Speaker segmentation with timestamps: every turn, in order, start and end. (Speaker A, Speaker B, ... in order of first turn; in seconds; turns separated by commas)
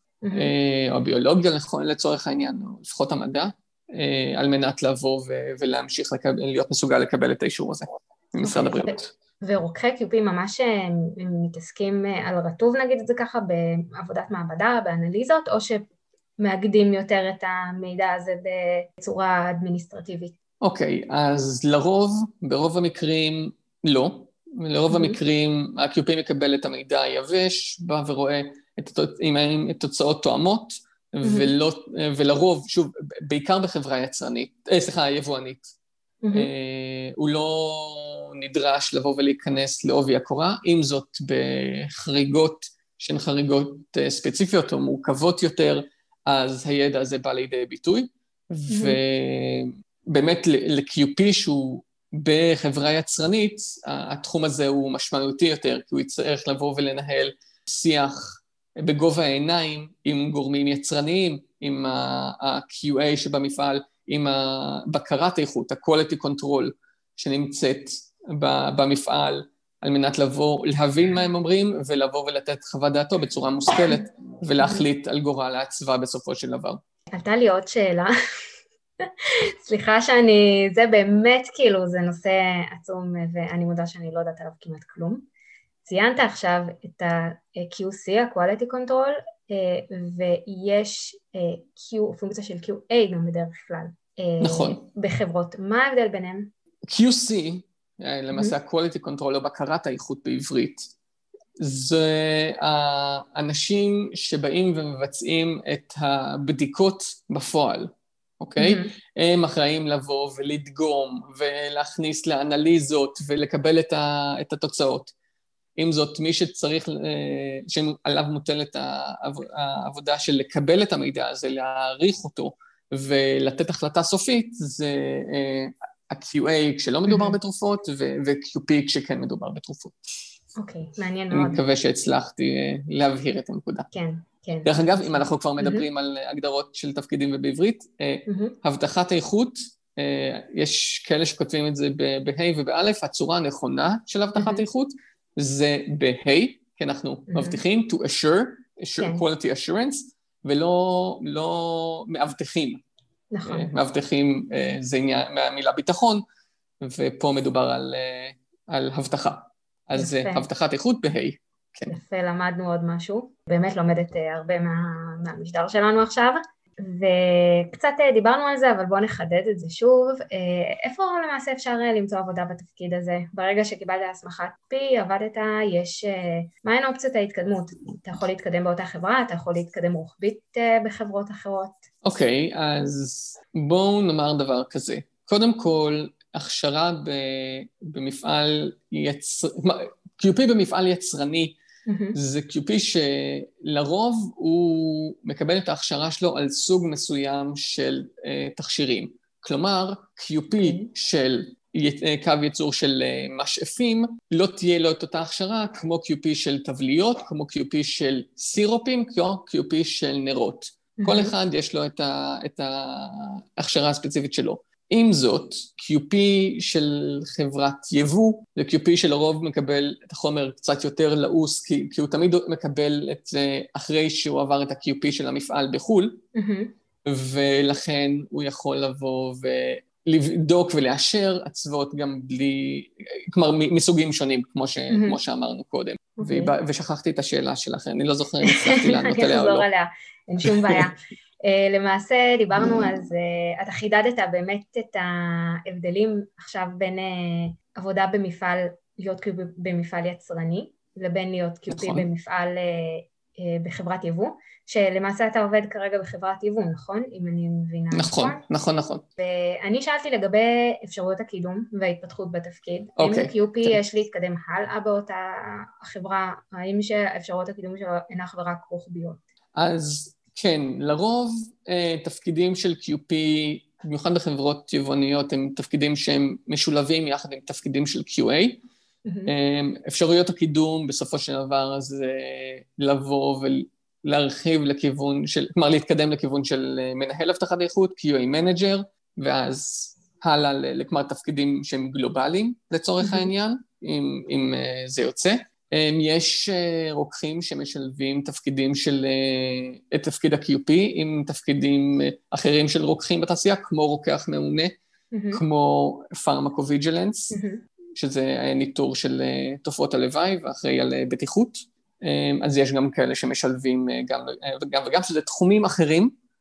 Speaker A: 0.2-0.5, Speaker B: 0.3-9.1, Speaker A: 8.4-20.4, Speaker B: 20.6-35.7, Speaker A: 24.9-25.2, Speaker A: 31.2-31.5, Speaker A: 36.2-36.5, Speaker B: 36.3-76.8, Speaker A: 48.7-49.0, Speaker A: 77.1-78.1, Speaker A: 79.2-85.3, Speaker A: 85.8-96.5, Speaker B: 94.4-94.8, Speaker B: 96.9-100.9, Speaker B: 101.6-115.1, Speaker A: 108.6-108.9, Speaker B: 115.8-130.0, Speaker A: 127.1-127.4, Speaker A: 130.6-131.6, Speaker B: 131.3-133.9, Speaker A: 133.9-135.8, Speaker B: 134.7-152.8, Speaker A: 138.3-138.6, Speaker A: 144.4-144.6, Speaker A: 147.3-147.6, Speaker A: 149.0-149.2, Speaker A: 153.3-153.7, Speaker B: 153.5-156.2, Speaker B: 156.8-161.9, Speaker A: 159.9-160.4, Speaker A: 161.9-181.8, Speaker B: 182.0-191.6, Speaker A: 191.9-192.2, Speaker B: 192.1-226.2, Speaker A: 200.6-200.9, Speaker A: 211.0-211.3, Speaker A: 226.3-226.7, Speaker B: 227.1-239.7, Speaker A: 234.9-235.2, Speaker A: 236.2-236.5, Speaker A: 238.4-258.4, Speaker B: 240.4-240.8, Speaker B: 251.7-252.1, Speaker B: 257.9-259.1, Speaker A: 259.2-269.2, Speaker B: 263.0-263.8, Speaker B: 269.6-278.6, Speaker A: 279.1-279.3, Speaker B: 279.3-304.8, Speaker A: 293.0-293.3, Speaker A: 305.1-305.4, Speaker B: 305.3-307.4, Speaker A: 307.3-307.6, Speaker B: 307.9-316.1